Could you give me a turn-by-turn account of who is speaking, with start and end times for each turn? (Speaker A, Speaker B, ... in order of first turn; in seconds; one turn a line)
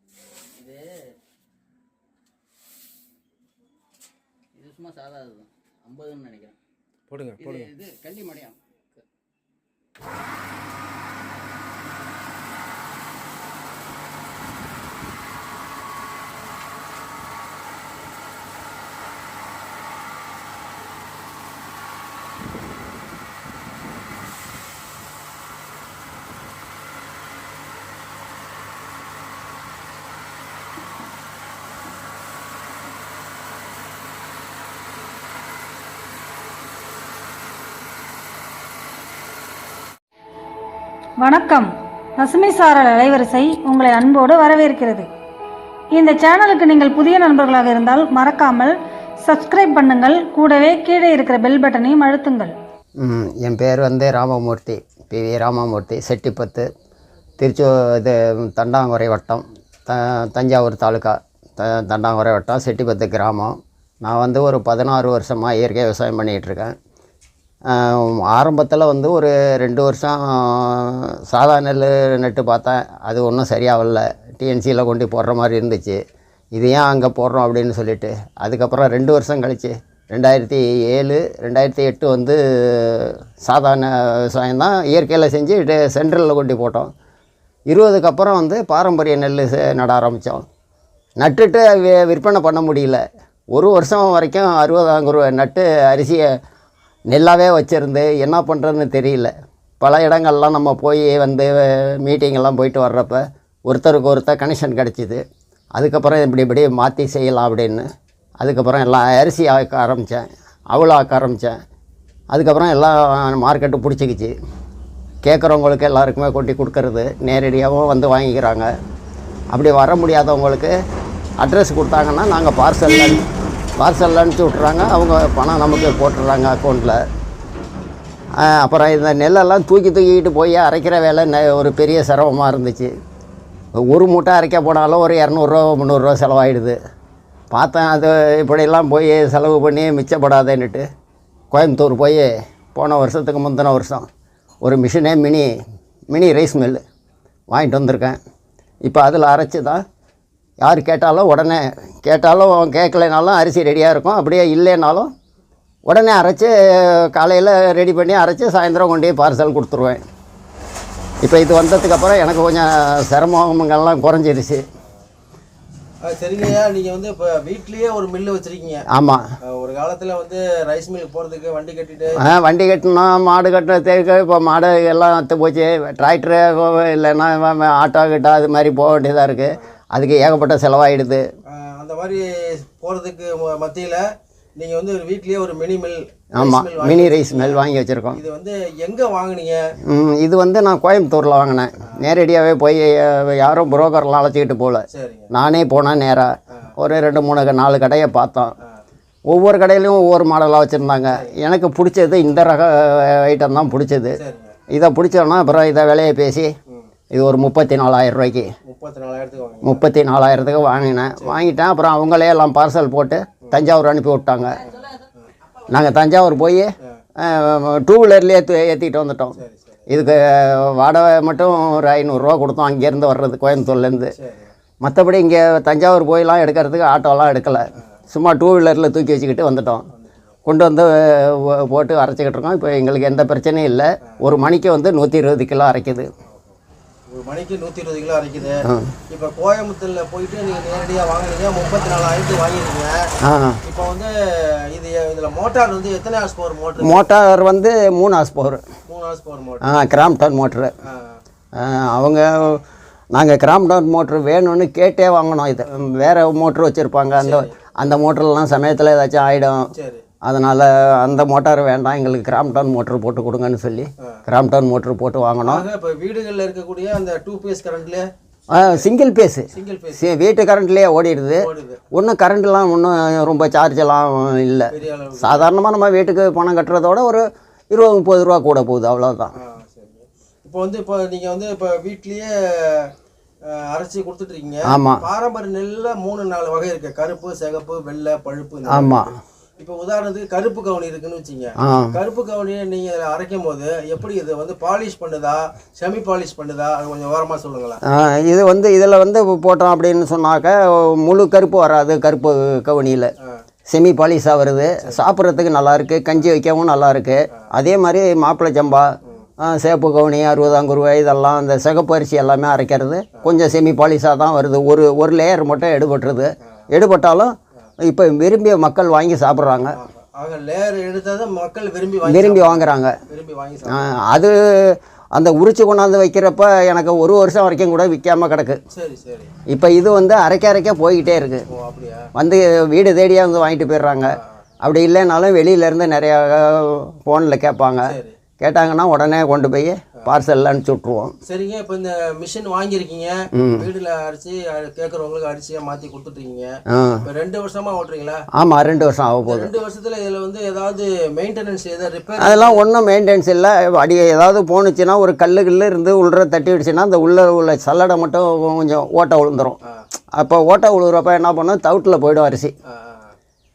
Speaker A: 0.6-0.9
Speaker A: 4.6-6.5
Speaker B: 7.1-7.7
Speaker A: 7.7-8.4
Speaker C: 41.2-45.1
Speaker C: 45.9-52.5
Speaker D: 53.0-56.7
Speaker D: 57.4-66.7
Speaker D: 67.7-76.0
Speaker D: 76.5-86.9
Speaker D: 87.7-90.4
Speaker D: 91.2-96.3
Speaker D: 97.1-105.2
Speaker D: 105.8-107.8
Speaker D: 108.4-111.5
Speaker D: 112.3-114.3
Speaker D: 115.2-118.7
Speaker D: 119.5-120.7
Speaker D: 121.4-123.2
Speaker D: 123.8-127.0
Speaker D: 128.4-132.9
Speaker D: 133.8-136.8
Speaker D: 137.5-140.8
Speaker D: 141.5-144.1
Speaker D: 144.6-145.5
Speaker D: 146.1-146.8
Speaker D: 147.5-148.2
Speaker D: 148.8-149.8
Speaker D: 150.6-155.1
Speaker D: 155.9-160.0
Speaker D: 161.2-164.6
Speaker B: 166.0-168.8
Speaker D: 168.9-169.2
Speaker B: 169.4-172.2
Speaker D: 172.2-181.2
Speaker B: 181.5-184.0
Speaker B: 184.6-189.6
Speaker D: 186.3-188.2
Speaker D: 189.8-198.5
Speaker B: 194.9-195.3
Speaker D: 199.3-204.2
Speaker B: 204.2-204.6
Speaker D: 204.7-206.5
Speaker D: 207.1-208.5
Speaker B: 208.6-209.8
Speaker D: 209.6-214.6
Speaker B: 215.0-215.3
Speaker D: 215.7-219.4
Speaker B: 219.3-219.8
Speaker D: 219.9-224.1
Speaker B: 224.2-224.5
Speaker D: 224.8-229.8
Speaker B: 229.9-230.3
Speaker D: 230.4-236.1
Speaker B: 237.1-243.1
Speaker D: 238.6-238.9
Speaker D: 243.2-243.6
Speaker B: 243.6-247.1
Speaker D: 246.8-248.6
Speaker B: 248.8-249.8
Speaker D: 249.6-250.7
Speaker B: 250.8-251.2
Speaker D: 251.6-252.6
Speaker D: 253.1-259.7
Speaker B: 257.1-257.6
Speaker B: 259.7-260.0
Speaker D: 260.2-265.6
Speaker B: 265.4-268.1
Speaker D: 268.5-279.3
Speaker B: 269.5-270.1
Speaker B: 271.4-271.8
Speaker B: 274.7-275.5
Speaker B: 279.3-282.9
Speaker B: 283.5-289.0
Speaker D: 284.7-285.0
Speaker D: 288.7-289.1
Speaker B: 289.6-297.8
Speaker D: 291.6-291.9
Speaker D: 297.9-303.1
Speaker D: 303.7-319.7
Speaker B: 319.7-323.8
Speaker D: 322.0-323.0
Speaker D: 323.7-328.6
Speaker B: 328.7-329.3
Speaker D: 329.5-331.4
Speaker B: 331.5-332.1
Speaker D: 332.1-334.1
Speaker D: 334.6-341.1
Speaker B: 337.8-338.1
Speaker B: 341.2-346.5
Speaker D: 343.3-343.6
Speaker D: 346.7-347.0
Speaker B: 347.0-348.2
Speaker D: 348.3-349.5
Speaker B: 349.2-352.6
Speaker D: 352.2-359.6
Speaker D: 360.1-362.5
Speaker B: 362.6-363.1